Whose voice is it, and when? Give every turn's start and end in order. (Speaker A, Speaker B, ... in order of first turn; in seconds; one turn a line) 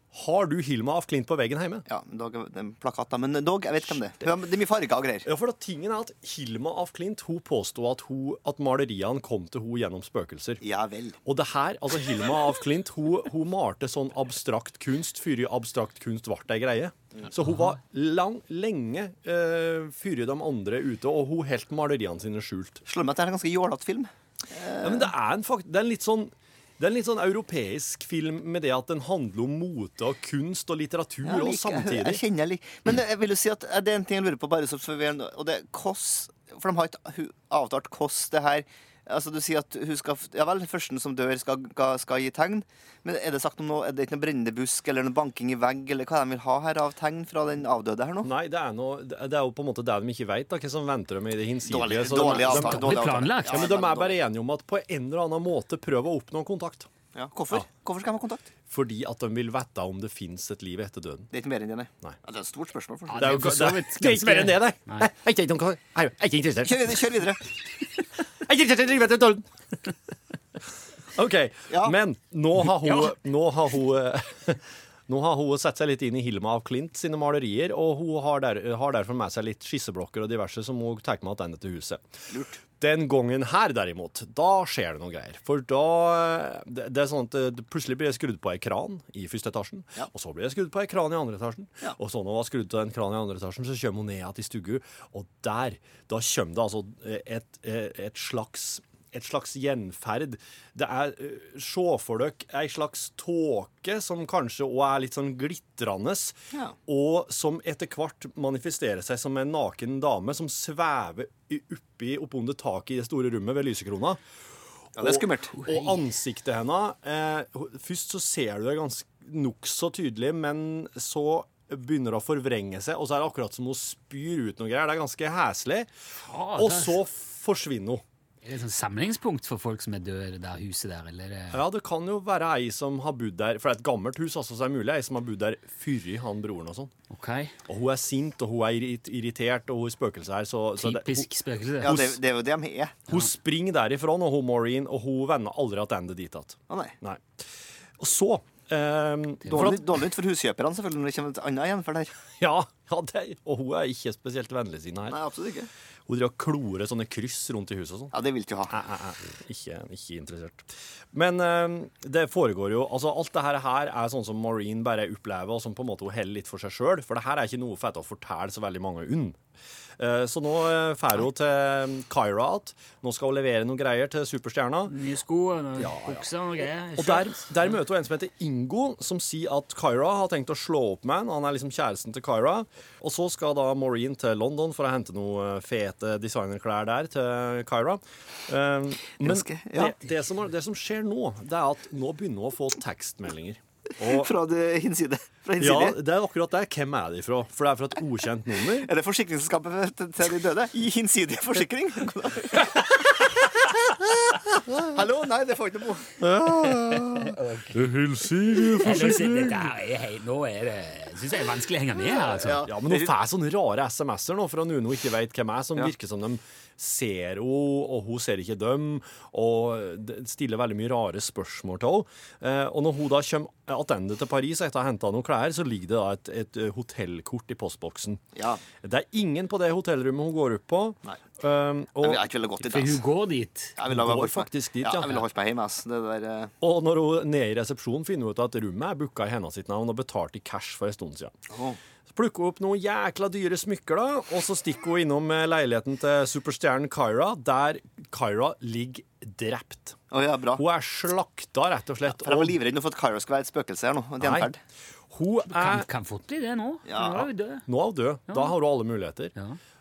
Speaker A: 0.1-1.8
Speaker B: 1.9-5.3
Speaker A: 5.2-10.6
Speaker B: 10.6-11.2
Speaker A: 11.2-22.8
Speaker B: 22.8-25.1
Speaker A: 24.8-32.2
Speaker B: 31.2-48.3
Speaker A: 48.2-56.9
Speaker B: 51.7-54.1
Speaker C: 52.3-53.6
Speaker B: 57.1-58.5
Speaker A: 58.7-61.3
Speaker B: 61.3-63.4
Speaker C: 63.1-65.1
Speaker A: 63.1-67.1
Speaker B: 66.6-67.4
Speaker A: 68.4-69.5
Speaker A: 71.1-82.0
Speaker B: 71.7-71.9
Speaker B: 82.3-82.6
Speaker A: 82.8-114.2
Speaker A: 115.0-125.9
Speaker B: 115.0-115.5
Speaker C: 115.5-116.0
Speaker C: 126.2-127.0
Speaker A: 126.5-128.0
Speaker C: 128.4-131.6
Speaker A: 131.5-136.9
Speaker C: 137.1-137.6
Speaker A: 137.7-141.3
Speaker C: 140.8-142.1
Speaker A: 141.8-142.2
Speaker B: 141.8-143.1
Speaker A: 143.1-147.2
Speaker B: 146.7-146.9
Speaker A: 148.0-149.8
Speaker C: 149.4-149.7
Speaker B: 149.5-152.2
Speaker A: 152.4-155.2
Speaker B: 155.1-155.7
Speaker A: 156.1-158.1
Speaker B: 158.1-158.8
Speaker A: 158.7-169.4
Speaker A: 170.0-174.9
Speaker C: 174.9-177.7
Speaker A: 175.8-176.3
Speaker A: 177.0-194.3
Speaker B: 189.2-189.9
Speaker B: 194.0-195.9
Speaker A: 195.6-198.9
Speaker B: 198.7-206.2
Speaker A: 206.2-209.7
Speaker C: 207.1-207.8
Speaker C: 208.8-212.7
Speaker B: 212.0-213.1
Speaker A: 212.6-228.2
Speaker B: 228.3-228.6
Speaker A: 228.8-232.2
Speaker B: 232.0-233.0
Speaker C: 232.6-233.8
Speaker B: 233.8-236.5
Speaker A: 233.9-235.2
Speaker A: 236.6-241.3
Speaker B: 241.5-241.8
Speaker A: 242.1-250.0
Speaker B: 250.1-250.6
Speaker A: 250.5-252.6
Speaker B: 252.1-254.6
Speaker A: 254.2-254.5
Speaker A: 255.1-255.9
Speaker C: 255.5-257.7
Speaker B: 256.9-257.3
Speaker A: 257.6-259.3
Speaker C: 258.3-258.5